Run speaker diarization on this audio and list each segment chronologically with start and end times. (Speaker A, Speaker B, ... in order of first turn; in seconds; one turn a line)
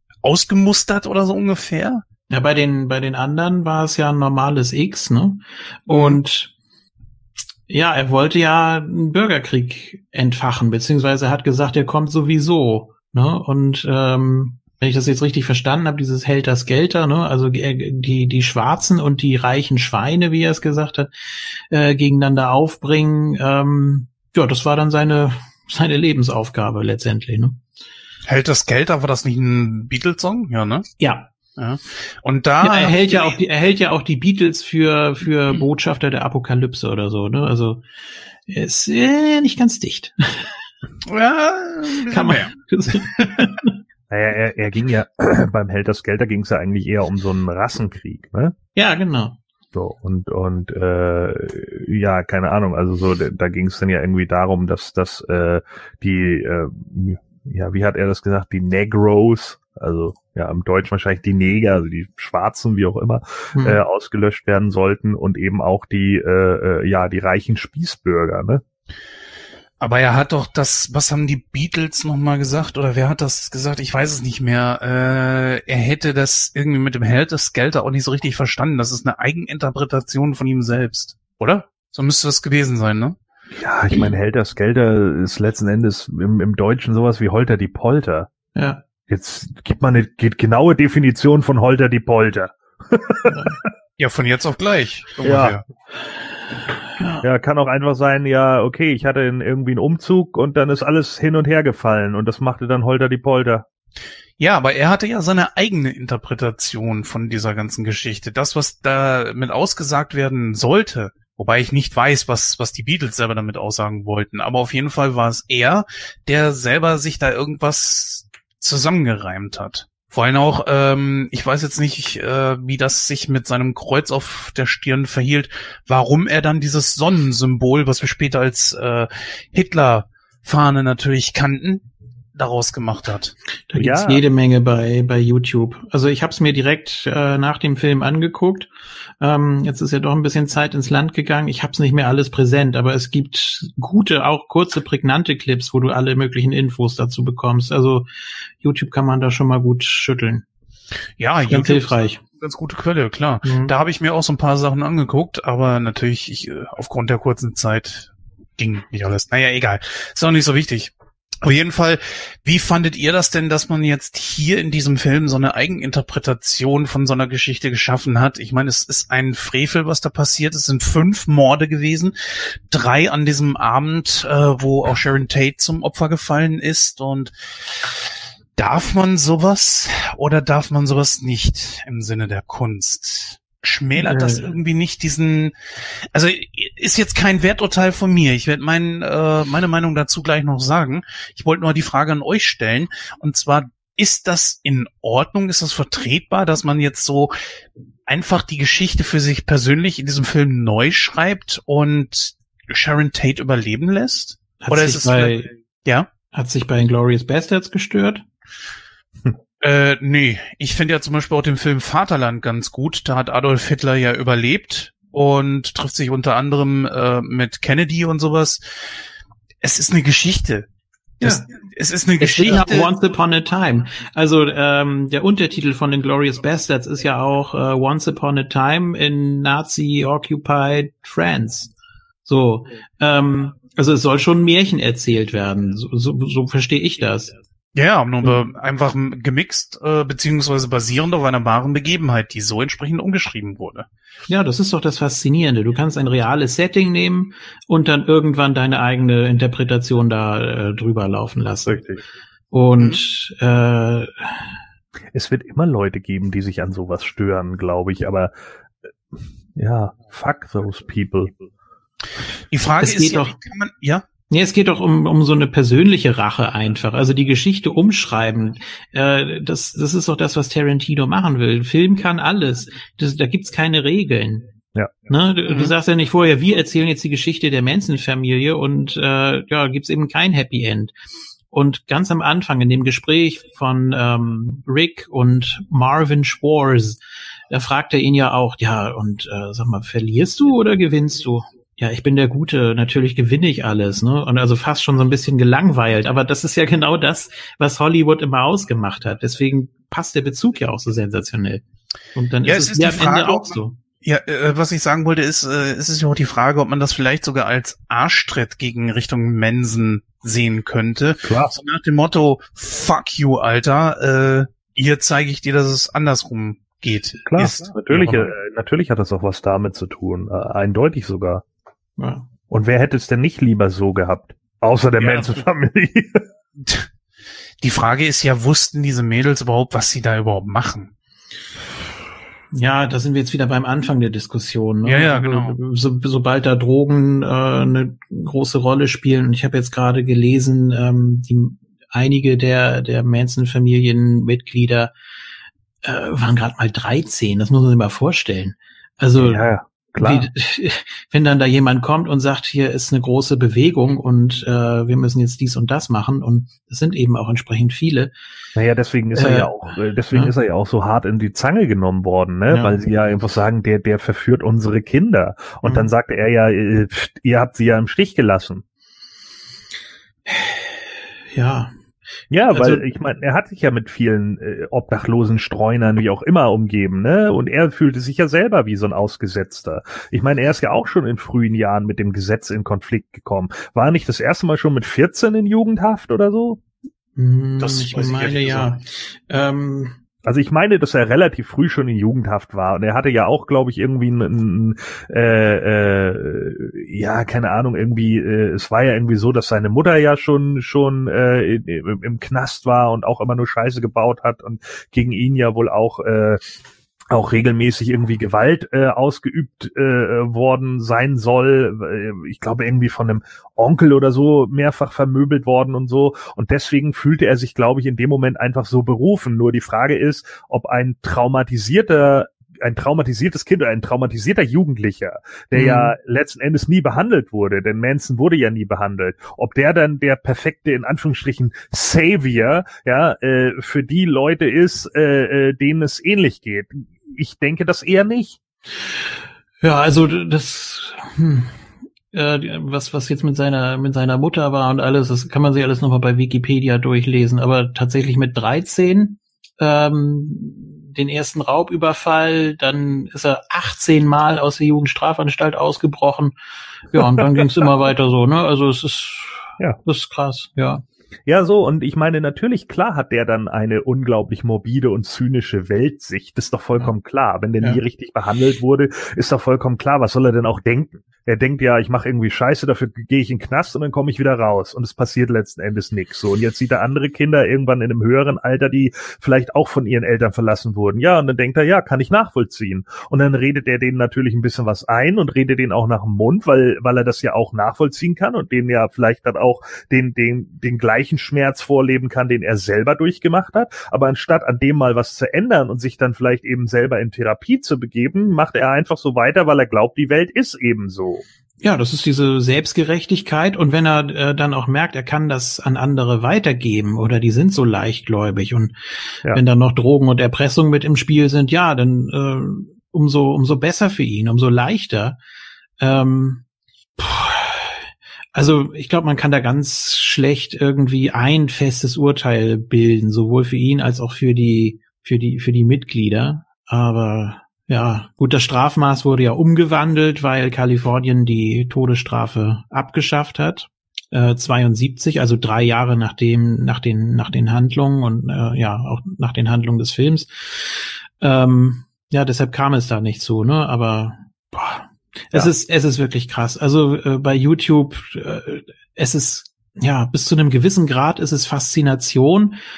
Speaker A: 0.2-2.0
Speaker B: 2.3-6.5
Speaker A: 5.9-6.2
Speaker B: 7.7-21.1
Speaker B: 21.7-27.6
Speaker A: 28.2-30.9
Speaker B: 31.0-31.3
Speaker A: 31.6-33.4
Speaker B: 32.6-37.8
Speaker B: 38.5-40.5
Speaker A: 41.0-42.5
Speaker B: 42.1-43.7
Speaker C: 44.1-48.5
Speaker B: 48.8-49.4
Speaker C: 49.7-68.6
Speaker B: 63.5-63.8
Speaker A: 69.8-83.2
Speaker C: 83.5-88.3
Speaker B: 88.5-88.8
Speaker C: 89.1-93.6
Speaker B: 93.3-93.6
Speaker A: 94.0-95.6
Speaker C: 95.2-95.6
Speaker B: 97.0-97.2
Speaker C: 97.2-103.7
Speaker A: 104.4-133.3
Speaker B: 133.7-148.1
Speaker C: 133.7-134.2
Speaker B: 148.6-150.4
Speaker A: 151.2-177.9
Speaker B: 151.5-152.2
Speaker B: 153.4-153.7
Speaker A: 178.6-185.5
Speaker B: 183.9-184.5
Speaker A: 186.1-197.3
Speaker A: 198.1-206.1
Speaker B: 204.6-205.5
Speaker B: 206.3-208.2
Speaker A: 209.6-218.6
Speaker A: 219.6-220.7
Speaker A: 221.2-222.9
Speaker B: 222.2-231.7
Speaker B: 232.2-237.4
Speaker A: 237.7-243.9
Speaker B: 244.3-252.0
Speaker C: 251.7-252.0
Speaker B: 252.5-254.4
Speaker C: 255.1-258.3
Speaker C: 259.6-261.4
Speaker A: 262.5-264.1
Speaker B: 262.8-263.3
Speaker B: 264.3-274.5
Speaker B: 275.1-280.9
Speaker A: 275.5-275.7
Speaker B: 281.5-301.6
Speaker B: 302.1-303.8
Speaker A: 302.4-318.3
Speaker C: 311.2-311.5
Speaker C: 317.2-321.4
Speaker B: 322.0-322.3
Speaker C: 322.5-326.2
Speaker A: 325.0-325.4
Speaker A: 326.6-326.9
Speaker A: 327.6-330.9
Speaker B: 332.5-344.9
Speaker A: 334.8-335.6
Speaker B: 345.8-349.4
Speaker C: 349.2-350.3
Speaker B: 350.0-358.1
Speaker C: 358.6-368.6
Speaker B: 359.1-359.5
Speaker B: 362.5-362.8
Speaker B: 365.6-365.9
Speaker B: 370.3-370.6
Speaker B: 371.3-371.7
Speaker C: 372.3-386.6
Speaker B: 372.5-372.8
Speaker B: 387.1-390.0
Speaker A: 387.6-388.8
Speaker C: 390.2-406.4
Speaker C: 407.1-438.4
Speaker B: 425.5-425.9
Speaker B: 439.6-441.6
Speaker B: 442.1-456.3
Speaker B: 456.9-460.8
Speaker C: 456.9-457.6
Speaker C: 461.3-501.2
Speaker B: 501.6-515.2
Speaker B: 515.8-516.4
Speaker B: 517.0-517.8
Speaker B: 518.3-552.6